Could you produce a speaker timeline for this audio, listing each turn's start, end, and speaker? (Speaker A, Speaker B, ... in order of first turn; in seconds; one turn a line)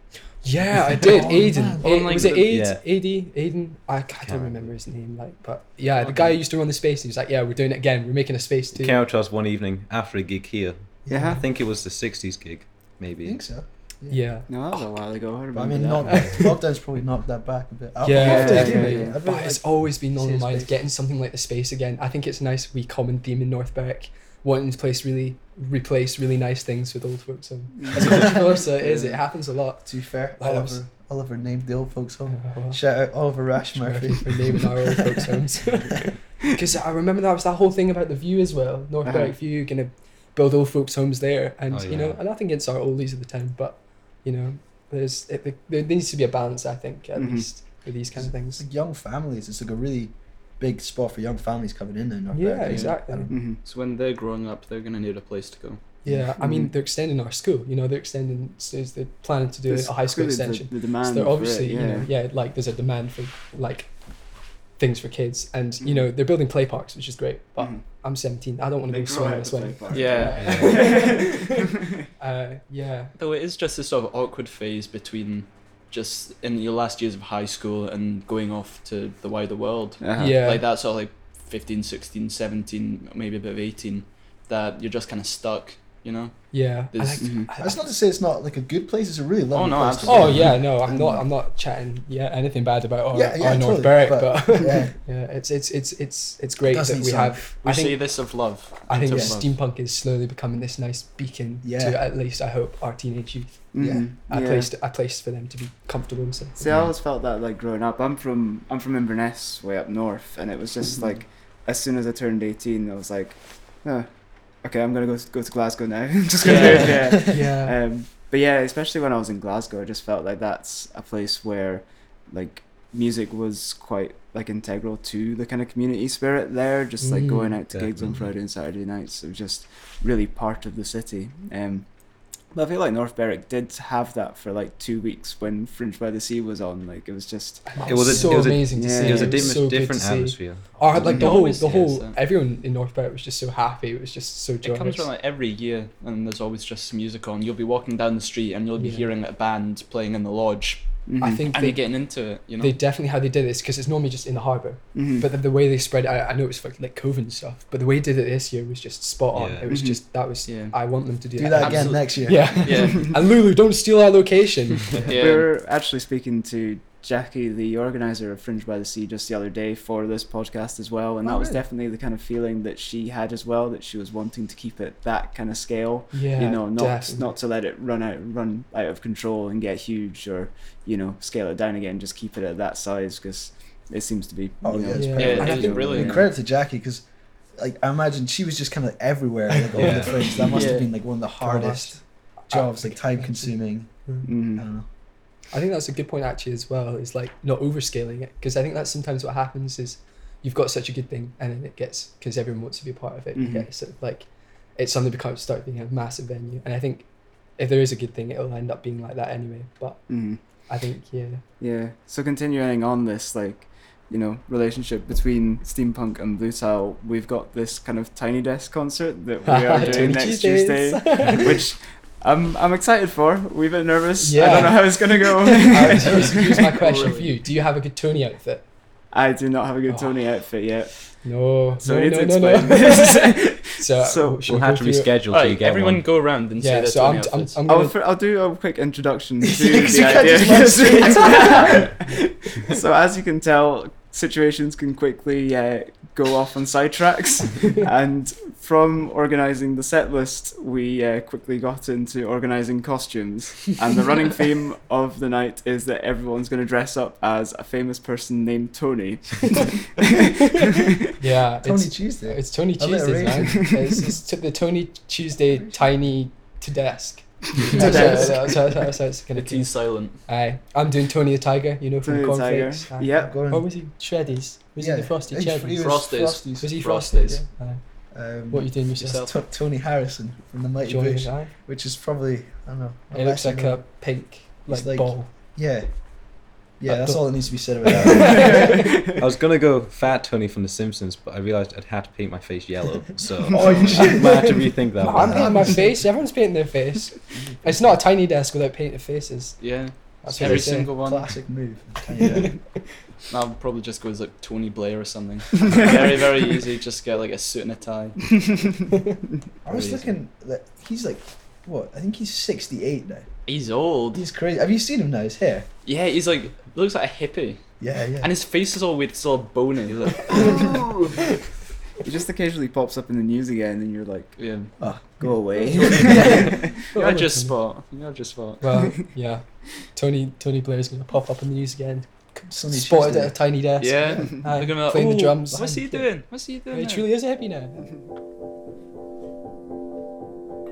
Speaker A: 0.4-9.0
Speaker B: 1.0-1.9
Speaker C: 1.1-2.5
Speaker D: 2.5-2.8
Speaker D: 4.1-4.7
Speaker D: 8.7-13.4
Speaker B: 11.1-11.4
Speaker E: 11.1-11.4
Speaker B: 13.2-14.2
Speaker A: 14.1-14.9
Speaker E: 14.5-16.2
Speaker B: 15.5-20.9
Speaker A: 16.1-16.5
Speaker A: 18.0-30.8
Speaker E: 18.1-19.2
Speaker E: 27.8-29.2
Speaker B: 28.0-28.6
Speaker B: 29.9-36.1
Speaker A: 32.3-32.8
Speaker A: 33.7-48.6
Speaker E: 39.0-39.4
Speaker D: 41.7-42.2
Speaker E: 47.1-47.5
Speaker B: 48.2-53.4
Speaker A: 52.3-53.3
Speaker E: 52.7-53.6
Speaker C: 53.6-55.8
Speaker A: 56.0-63.9
Speaker B: 56.0-56.4
Speaker E: 56.4-56.7
Speaker E: 59.7-62.1
Speaker A: 64.8-73.1
Speaker E: 65.8-66.1
Speaker E: 68.9-72.0
Speaker C: 69.9-70.8
Speaker D: 70.4-70.8
Speaker C: 73.2-87.4
Speaker E: 80.0-80.4
Speaker A: 80.2-80.6
Speaker A: 86.5-87.8
Speaker E: 87.2-87.5
Speaker B: 87.6-91.3
Speaker C: 89.5-90.5
Speaker A: 90.1-98.3
Speaker B: 93.1-94.9
Speaker B: 96.7-97.5
Speaker C: 97.6-99.6
Speaker A: 98.9-106.7
Speaker B: 99.1-99.4
Speaker B: 101.6-102.0
Speaker E: 103.7-104.7
Speaker B: 103.8-104.1
Speaker E: 106.6-114.1
Speaker E: 114.6-131.9
Speaker C: 116.4-117.1
Speaker A: 116.5-117.8
Speaker A: 127.0-127.6
Speaker D: 127.7-128.3
Speaker E: 132.5-139.5
Speaker A: 137.7-145.1
Speaker D: 137.8-141.8
Speaker C: 141.0-142.2
Speaker C: 144.6-152.8
Speaker A: 148.8-149.1
Speaker E: 151.1-151.4
Speaker A: 151.2-152.0
Speaker A: 152.6-165.1
Speaker E: 154.9-155.3
Speaker D: 159.3-159.7
Speaker E: 159.7-160.0
Speaker C: 160.5-160.8
Speaker B: 161.4-162.9
Speaker C: 161.6-163.2
Speaker C: 165.0-165.5
Speaker E: 165.1-186.2
Speaker B: 171.2-171.6
Speaker A: 176.1-177.3
Speaker B: 184.6-194.9
Speaker A: 184.9-186.1
Speaker C: 185.2-186.3
Speaker A: 189.5-190.4
Speaker D: 189.8-190.3
Speaker C: 190.4-190.9
Speaker A: 191.4-193.5
Speaker A: 194.1-194.3
Speaker E: 194.3-194.6
Speaker A: 195.5-207.1
Speaker E: 203.3-203.7
Speaker A: 207.6-211.4
Speaker E: 210.1-210.4
Speaker E: 211.6-226.7
Speaker A: 219.5-221.5
Speaker C: 219.7-220.2
Speaker A: 224.2-228.7
Speaker C: 226.1-227.4
Speaker E: 229.1-231.1
Speaker A: 229.9-230.5
Speaker A: 231.2-235.1
Speaker E: 231.8-234.5
Speaker D: 234.4-236.1
Speaker C: 235.3-237.6
Speaker A: 236.6-237.9
Speaker E: 237.7-260.9
Speaker A: 239.6-241.6
Speaker B: 239.8-241.8
Speaker A: 261.2-275.8
Speaker B: 261.6-263.7
Speaker B: 265.5-265.9
Speaker E: 267.6-268.6
Speaker B: 267.7-268.3
Speaker C: 267.8-268.4
Speaker C: 269.4-270.2
Speaker E: 272.0-273.4
Speaker B: 273.2-273.7
Speaker B: 274.8-276.8
Speaker C: 275.7-277.4
Speaker A: 276.6-277.8
Speaker B: 278.1-283.9
Speaker A: 278.5-279.2
Speaker C: 279.0-279.3
Speaker A: 280.8-281.5
Speaker A: 283.1-285.3
Speaker B: 284.7-285.9
Speaker B: 286.8-288.8
Speaker A: 287.9-288.9
Speaker E: 288.3-289.2
Speaker D: 289.2-295.8
Speaker B: 293.5-294.6
Speaker E: 293.5-293.9
Speaker A: 294.0-300.9
Speaker B: 295.1-296.1
Speaker B: 297.3-298.0
Speaker C: 299.6-301.3
Speaker B: 300.3-302.6
Speaker A: 302.2-302.5
Speaker C: 303.3-308.4
Speaker B: 309.6-313.3
Speaker C: 309.7-310.1
Speaker C: 313.5-314.2
Speaker B: 314.1-315.7
Speaker C: 315.9-317.6
Speaker B: 317.8-318.3
Speaker C: 318.2-321.0
Speaker B: 320.3-320.8
Speaker E: 320.3-320.9
Speaker E: 322.0-324.4
Speaker C: 324.4-324.7
Speaker B: 324.8-326.7
Speaker E: 325.2-326.8
Speaker C: 325.7-329.0
Speaker A: 326.1-327.6
Speaker A: 328.6-336.2
Speaker B: 332.4-333.4
Speaker C: 333.8-337.1
Speaker B: 334.0-334.4
Speaker A: 336.7-337.9